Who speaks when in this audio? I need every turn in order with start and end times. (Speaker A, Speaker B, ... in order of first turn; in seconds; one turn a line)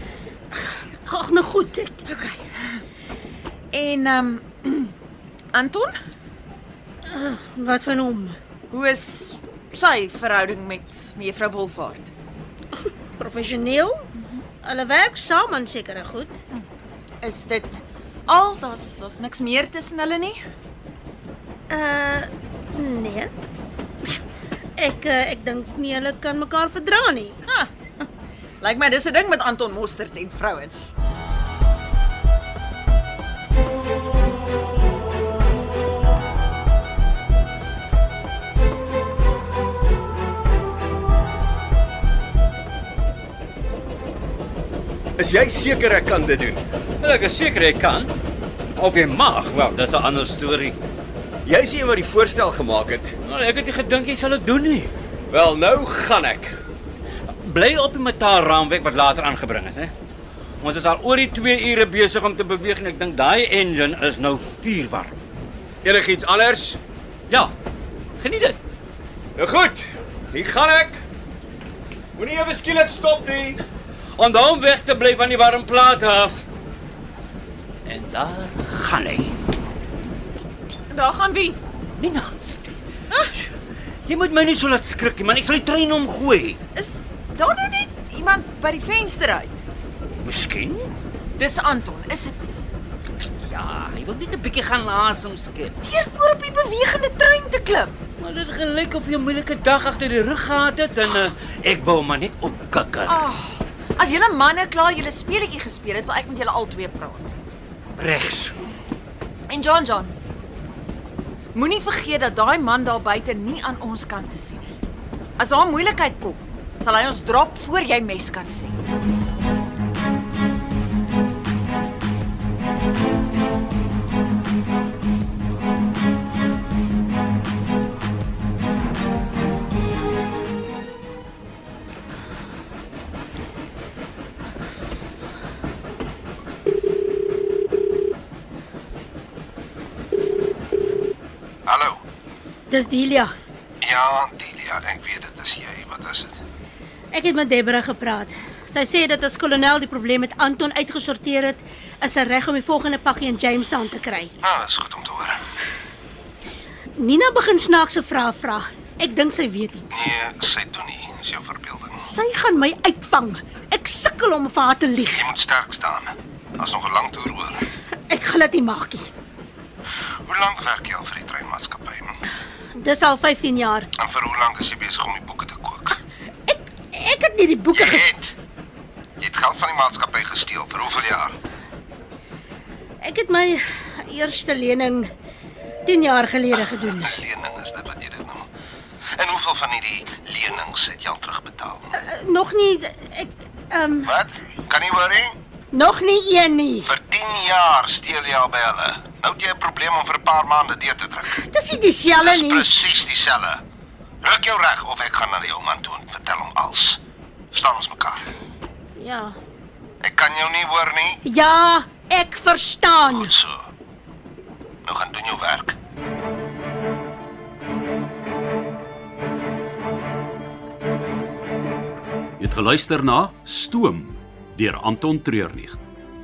Speaker A: 1.1-2.0
Speaker B: 2.1-2.8
Speaker B: 3.7-4.9
Speaker B: 5.5-5.9
Speaker A: 7.1-8.4
Speaker B: 8.7-12.1
Speaker A: 13.1-14.1
Speaker A: 14.6-16.4
Speaker B: 17.2-20.4
Speaker A: 21.7-23.3
Speaker A: 24.8-27.4
Speaker B: 27.5-28.1
Speaker B: 28.6-30.9
Speaker C: 45.2-46.6
Speaker D: 47.0-48.1
Speaker D: 48.8-50.8
Speaker C: 51.4-53.1
Speaker D: 53.2-54.9
Speaker C: 55.3-56.6
Speaker D: 57.4-59.9
Speaker D: 60.6-65.2
Speaker C: 65.8-66.8
Speaker D: 68.2-68.6
Speaker C: 69.4-71.0
Speaker C: 72.2-73.6
Speaker D: 74.2-76.4
Speaker D: 77.8-79.3
Speaker B: 80.9-81.6
Speaker D: 82.0-82.8
Speaker D: 84.1-86.6
Speaker B: 86.7-89.6
Speaker D: 90.2-90.9
Speaker B: 91.4-92.4
Speaker D: 93.4-95.8
Speaker B: 95.8-98.0
Speaker D: 98.2-103.2
Speaker B: 103.0-107.3
Speaker D: 108.0-108.5
Speaker B: 109.5-110.1
Speaker B: 111.5-114.6
Speaker B: 115.4-118.8
Speaker E: 141.7-142.0
Speaker A: 142.7-143.3
Speaker E: 143.8-146.4
Speaker A: 147.1-154.3
Speaker E: 154.4-155.4
Speaker A: 157.0-160.1
Speaker E: 159.9-162.1
Speaker A: 162.0-165.3
Speaker E: 165.1-167.6
Speaker A: 168.1-169.1
Speaker E: 170.2-172.2
Speaker A: 172.8-173.9
Speaker E: 173.9-176.0
Speaker A: 176.5-178.1
Speaker E: 177.7-178.3
Speaker E: 179.2-181.4
Speaker A: 183.0-185.1
Speaker A: 185.8-187.1
Speaker E: 186.6-188.4
Speaker E: 189.2-191.9
Speaker A: 191.9-194.1
Speaker E: 194.0-195.3
Speaker A: 195.7-196.9
Speaker E: 196.8-201.4
Speaker A: 201.3-202.8
Speaker E: 202.2-203.6
Speaker E: 204.2-207.0
Speaker E: 207.5-208.3
Speaker A: 208.9-209.3
Speaker E: 210.0-211.2
Speaker A: 211.2-213.3
Speaker E: 213.0-213.6
Speaker E: 214.8-215.8
Speaker F: 222.4-225.8